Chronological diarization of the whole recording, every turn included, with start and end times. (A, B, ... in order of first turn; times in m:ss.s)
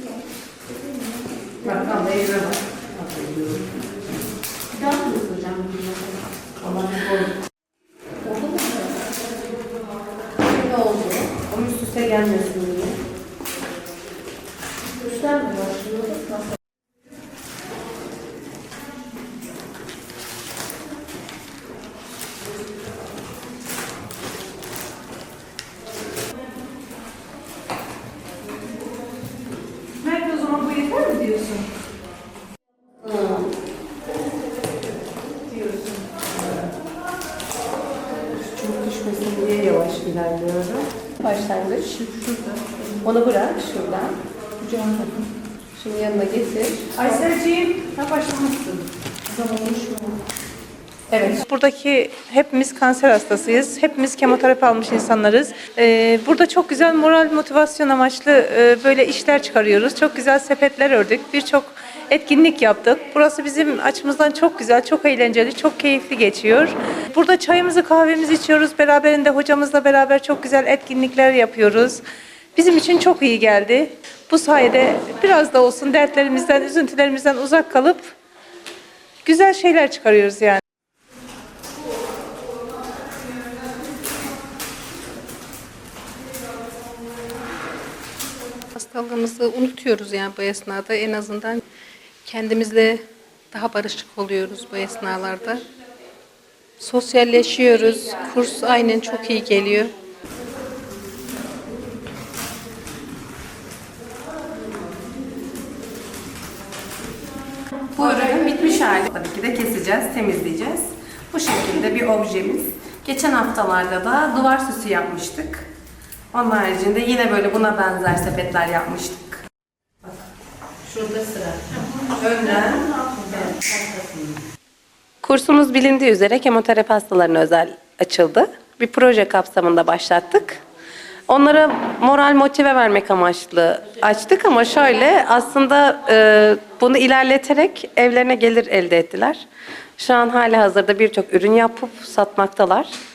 0:01.6-0:03.7 A
0:04.8-0:07.3 A
0:08.3-0:08.7 A
0:10.4-0:13.0 A
0:15.1-0:16.4 A
0:30.0-0:31.7 B
0:33.0-0:33.4 A
0:35.7-0:36.1 B
0:38.3-0:42.0 A
0:42.0-0:42.6 B
0:43.0-0:44.2 A
0:44.6-0:45.2 B
0:45.8-0:48.8 A
0:47.0-0:47.9 B
0:49.3-0:50.2 B
0:51.1-0:51.5 A
0:51.5-1:12.0 B
1:12.6-1:18.1 B
1:19.2-1:20.6 B
1:28.8-1:31.6 C
1:32.3-1:35.6 C
1:36.8-1:39.9 C
1:47.9-1:55.7 A
1:56.3-1:59.4 A
2:00.8-2:04.2 A
2:05.2-2:10.6 A
2:11.3-2:19.4 A
2:20.0-2:22.9 A